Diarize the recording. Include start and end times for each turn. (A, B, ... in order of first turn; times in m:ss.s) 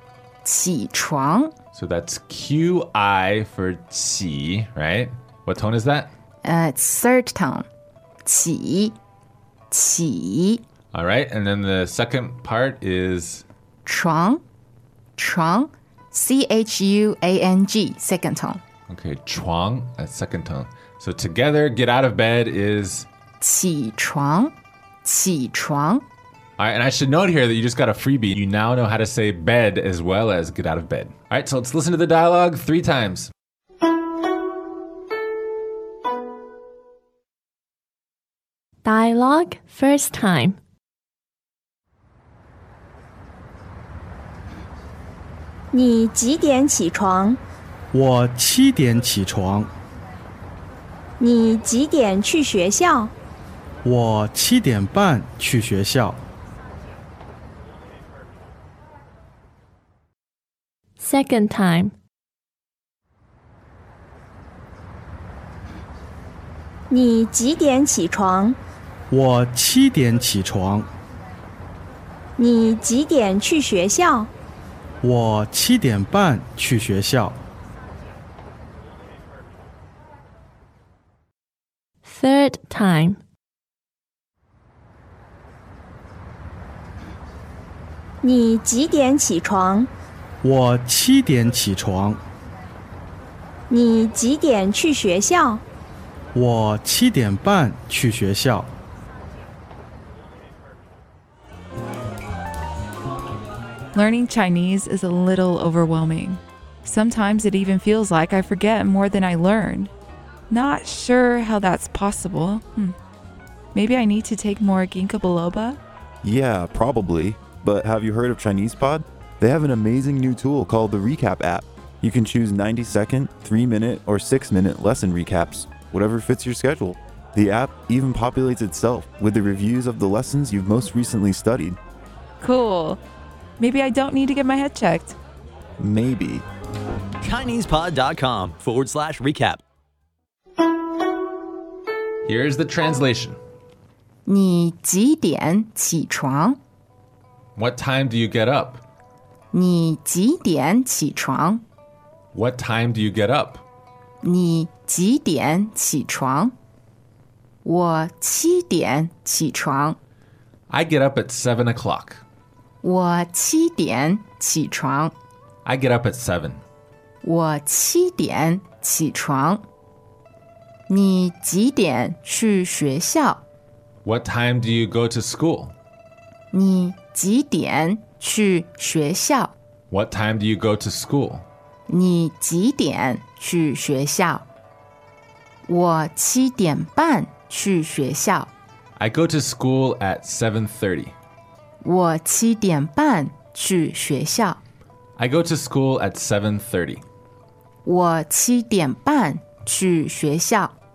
0:00.4-0:01.5 A
0:01.7-0:06.1 B
0:06.4-0:07.7 A
0:08.2-0:09.0 A
0:09.7-0:10.6 A
0:10.9-0:13.4 B
0:13.8-0:14.4 A
0:15.2-0:18.6 A
0:18.9-0:23.1 B
0:23.4-0:26.0 A
0:26.6-0:33.3 B
0:38.8-0:40.6 C
0:45.7-0:47.4 D
0:47.9-0:49.7 E
0:51.2-0:53.1 D
0:53.8-0:56.2 E
1:01.0-1:01.9 C
1:06.9-1:08.6 D
1:09.1-1:10.9 E
1:12.4-1:14.3 D
1:15.0-1:17.4 E
1:22.0-1:23.2 C
1:28.2-1:29.9 D
1:30.4-1:32.2 E
1:33.7-1:35.6 D
1:36.3-1:38.7 E
1:43.9-1:49.9 F
1:50.5-1:53.0 F
1:53.7-1:55.8 F
1:56.2-2:11.8 G
2:12.4-2:13.0 F
2:13.6-2:15.2 F
2:15.8-2:16.4 G
2:17.4-2:19.6 H
2:22.3-2:23.4 B
2:24.3-2:26.6 A
2:27.6-2:28.8 B
2:29.5-2:31.6 A
2:32.3-2:33.6 B
2:34.2-2:36.5 A
2:37.6-2:40.0 A
2:40.7-2:42.2 B
2:42.8-2:45.2 A
2:45.6-2:46.6 B
2:47.2-2:49.6 A
2:50.9-2:53.4 A
2:54.0-2:55.7 B
2:56.5-2:59.6 A
2:59.9-3:01.4 B
3:01.9-3:04.5 A
3:05.7-3:08.5 A
3:09.0-3:11.1 B
3:11.8-3:14.6 A
3:15.2-3:17.0 B
3:17.8-3:20.8 A